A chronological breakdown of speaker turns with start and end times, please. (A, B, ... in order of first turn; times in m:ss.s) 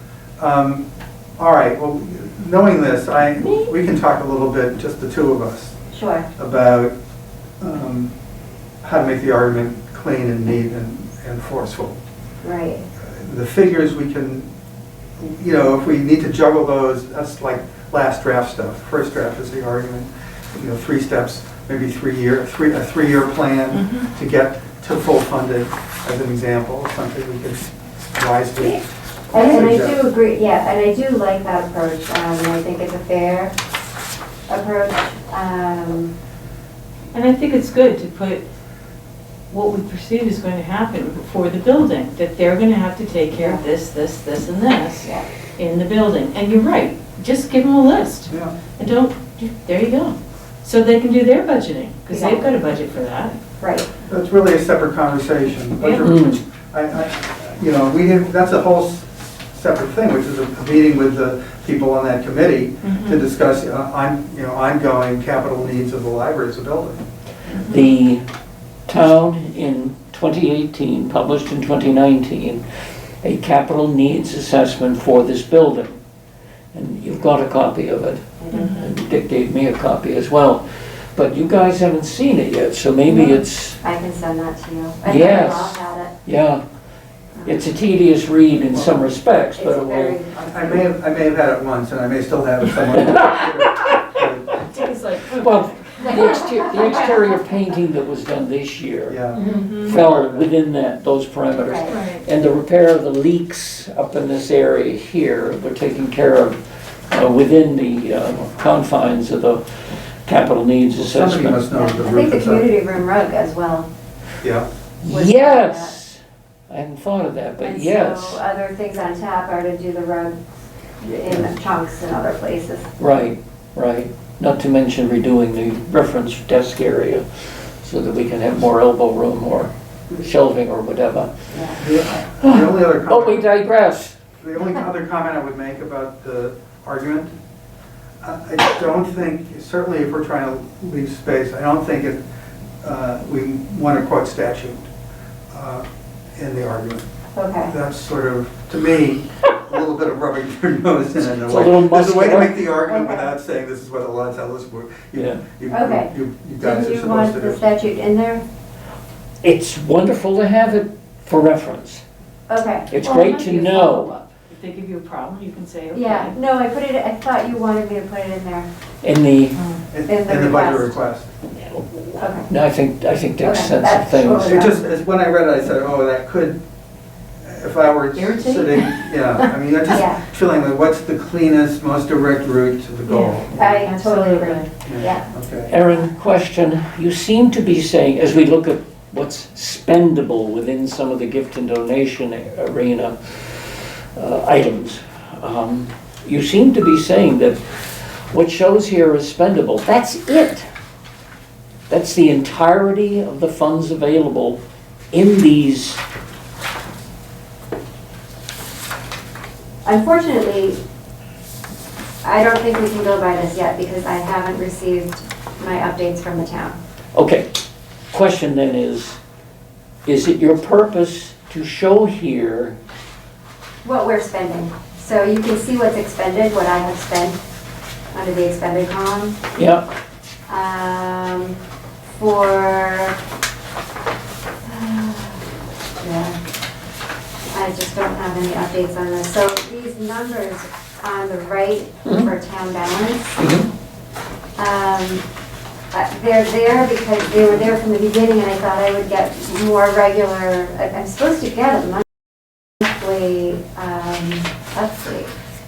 0:00.4-0:00.8 A
0:01.4-0:05.7 A
0:03.4-0:03.7 B
0:05.9-0:06.3 C
0:06.4-0:06.9 A
0:07.6-0:08.1 A
0:08.8-0:12.0 A
0:12.4-0:12.8 C
0:13.2-0:14.5 A
0:15.2-0:30.0 A
0:23.7-0:24.1 B
0:29.3-0:33.5 C
0:29.4-0:29.7 B
0:34.5-0:36.1 C
0:37.1-0:38.5 B
0:39.5-0:53.4 B
0:43.3-0:43.6 C
0:48.3-0:48.5 A
0:52.1-0:52.5 C
0:53.6-0:53.9 C
0:54.1-1:07.0 A
0:55.8-0:56.4 D
1:02.8-1:03.2 B
1:07.5-1:07.8 B
1:07.6-1:08.2 D
1:08.9-1:12.6 D
1:13.2-1:16.0 D
1:16.7-1:23.8 D
1:18.4-1:18.8 C
1:18.5-1:18.9 B
1:23.1-1:23.4 B
1:23.8-1:26.1 C
1:25.0-1:26.6 D
1:27.4-1:27.6 C
1:27.4-1:30.2 D
1:28.7-1:29.1 A
1:29.6-1:30.9 C
1:30.5-1:34.5 A
1:34.6-1:36.8 B
1:35.3-1:39.2 D
1:39.1-1:40.5 A
1:39.4-1:40.0 B
1:39.4-1:39.6 C
1:39.8-1:46.6 D
1:41.6-1:41.9 C
1:41.9-1:42.2 B
1:47.1-1:51.6 D
1:51.0-1:52.7 A
1:51.7-1:53.9 C
1:54.4-1:54.7 A
1:55.0-1:58.4 D
1:55.0-1:56.0 C
1:57.6-2:00.3 C
2:01.0-2:02.9 C
2:03.0-2:11.3 D
2:11.5-2:11.8 C
2:11.8-2:13.5 A
2:12.4-2:14.2 D
2:14.4-2:17.3 A
2:18.2-2:22.2 A
2:22.8-2:24.9 A
2:25.5-2:27.0 A
2:27.3-2:27.7 C
2:27.7-2:37.6 A
2:31.3-2:32.7 D
2:32.8-2:33.3 C
2:35.2-2:35.4 D
2:35.7-2:36.1 C
2:36.6-2:38.4 C
2:39.4-2:42.0 D
2:42.5-2:44.2 C
2:42.9-2:44.1 D
2:43.0-2:46.3 B
2:45.9-2:48.7 C
2:49.0-2:49.6 D
2:49.6-2:49.8 B
2:49.9-2:51.3 A
2:50.1-2:50.9 C
2:51.6-2:54.6 D
2:52.2-2:52.5 C
2:53.4-2:54.9 C
2:54.4-2:56.6 A
2:57.4-3:03.8 A
2:58.1-2:59.1 B
2:59.9-3:00.2 C
3:03.1-3:04.7 B
3:03.5-3:05.3 C
3:04.8-3:05.7 A
3:05.7-3:20.7 D
3:21.9-3:24.6 D
3:25.1-3:26.0 D
3:29.8-3:30.8 C
3:32.2-3:36.8 C
3:37.1-3:37.5 D
3:38.1-3:39.2 D
3:40.0-3:42.8 D
3:43.8-3:47.4 C
3:48.1-3:49.4 C
3:49.5-3:49.9 D
3:50.5-3:51.6 C
3:52.2-3:53.2 C
3:54.6-3:55.4 C
3:56.0-3:56.4 C
3:57.5-4:03.4 C
4:03.4-4:03.7 D
4:04.6-4:05.2 C
4:05.9-4:12.0 C
4:12.8-4:15.3 C